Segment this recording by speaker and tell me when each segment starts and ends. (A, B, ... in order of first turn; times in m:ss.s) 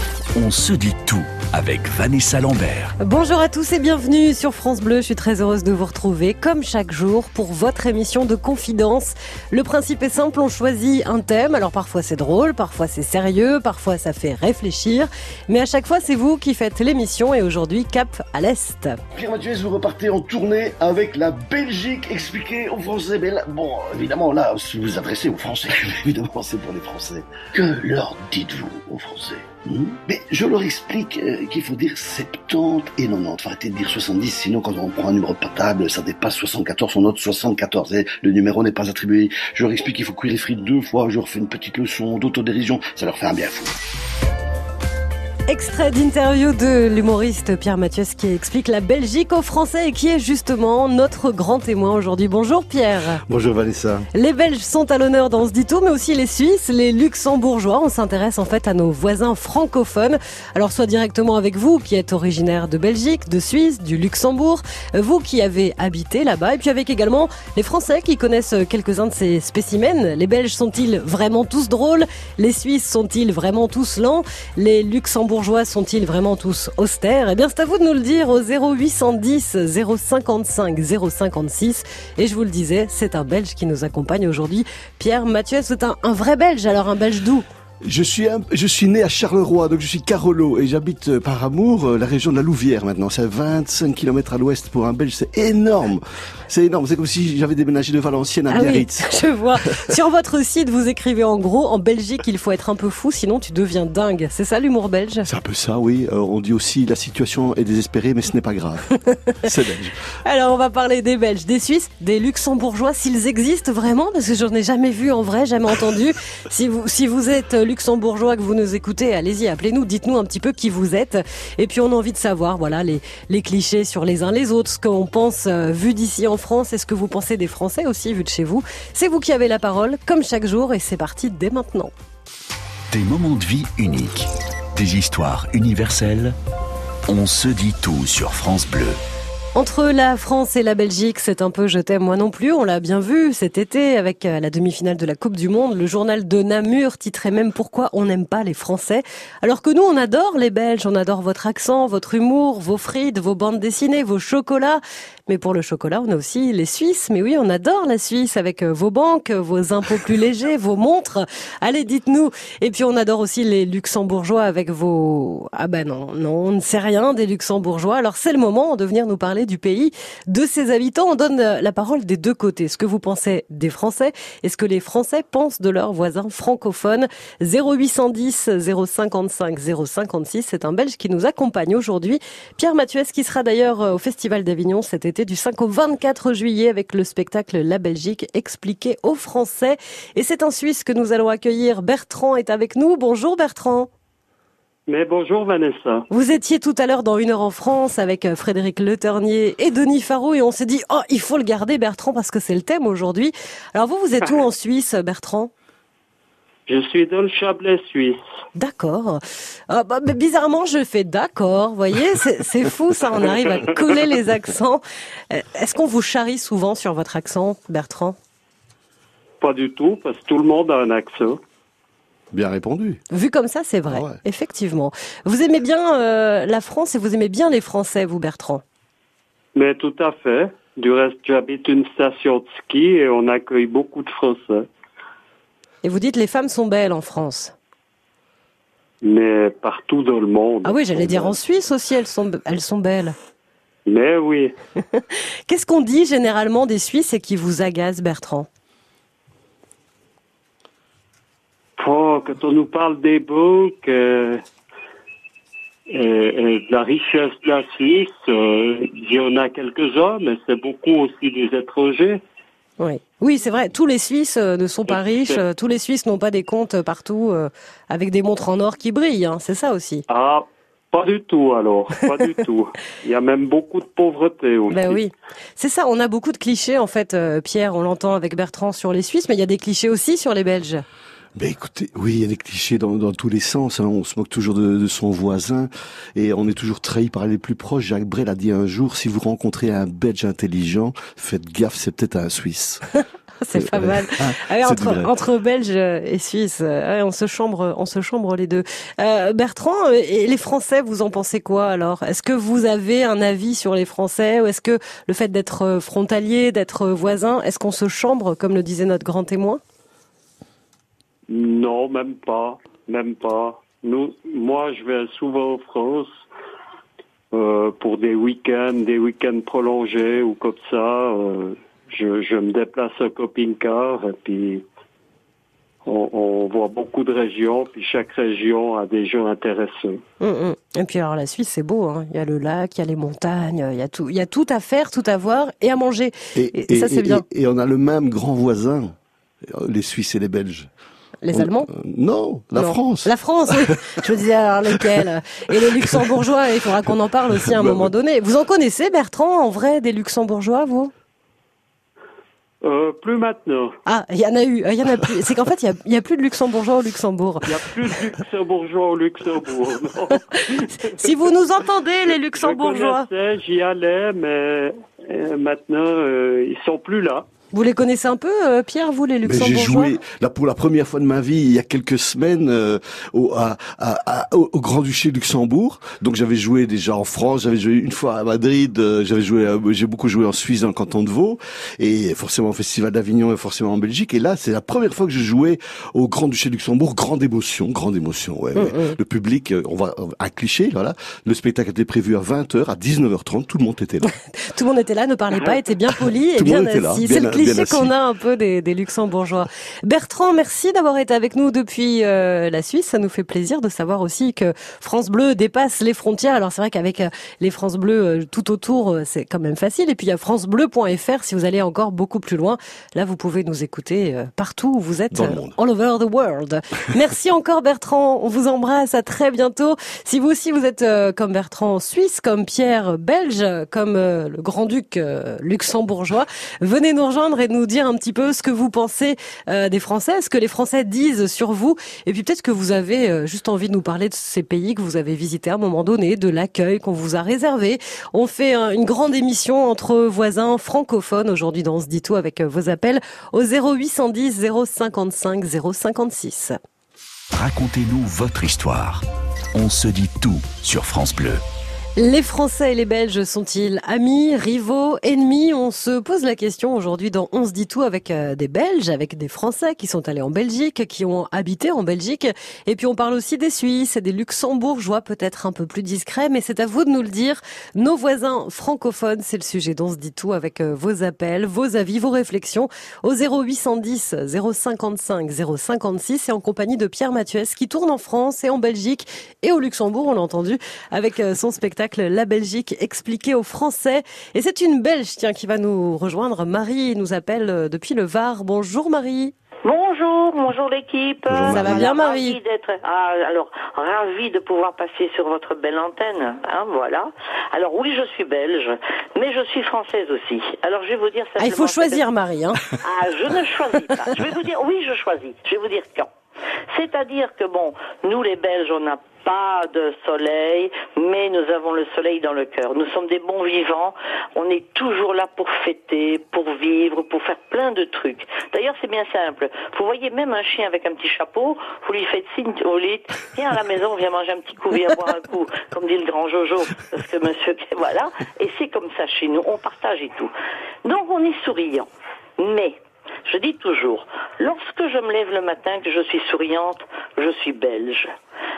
0:00.3-0:02.9 A
0:03.0-0:19.0 B
0:19.1-0:43.7 C
0:45.5-0:53.2 B
0:53.3-0:54.1 D
0:54.1-1:27.4 B
1:27.8-1:39.2 D
1:38.5-1:45.3 B
1:45.2-1:48.9 D
1:49.1-1:49.5 B
1:49.4-1:50.0 D
1:50.2-2:11.9 B
2:12.9-2:16.4 A
2:17.1-2:19.0 A
2:19.5-3:13.9 B
3:14.9-3:16.0 E
3:16.1-3:25.5 B
3:26.7-3:28.2 E
3:28.5-3:38.2 B
3:39.4-3:41.4 E
3:42.3-3:43.0 D
3:43.1-3:48.6 B
3:43.9-3:44.2 D
3:49.5-3:54.7 E
3:55.8-3:57.5 B
3:59.0-4:01.4 E
4:00.6-4:03.2 B
4:03.8-4:04.5 E
4:04.9-4:08.5 B
4:11.8-4:14.4 E
4:15.9-4:22.2 E
4:22.8-4:30.0 B
4:24.9-4:25.4 E
4:30.1-4:35.0 E
4:34.7-4:40.8 B
4:41.3-4:52.8 D
4:53.4-5:09.6 B
4:53.5-4:55.1 D
5:11.3-5:16.2 E
5:17.3-5:24.6 E
5:25.8-5:30.0 E
5:30.2-5:37.2 B
5:36.3-5:40.7 D
5:41.2-5:41.7 B
5:41.3-5:43.8 D
5:42.5-5:50.9 B
5:45.8-5:46.1 D
5:47.4-5:47.9 D
5:52.6-5:53.8 E
5:53.8-5:57.5 B
5:57.4-6:01.1 E
6:00.4-6:03.1 B
6:02.1-6:07.3 E
6:07.5-6:09.9 B
6:09.2-6:34.1 D
6:28.5-6:29.0 B
6:34.3-7:26.5 B
6:36.3-6:37.9 D
6:55.1-6:55.6 D
7:27.3-7:31.4 A
7:32.0-8:09.3 B
8:09.6-8:22.0 F
8:11.3-8:11.9 D
8:11.5-8:12.4 B
8:21.4-8:22.6 B
8:22.7-8:26.1 F
8:26.7-8:50.3 F
8:50.8-8:51.9 F
8:52.4-8:58.1 F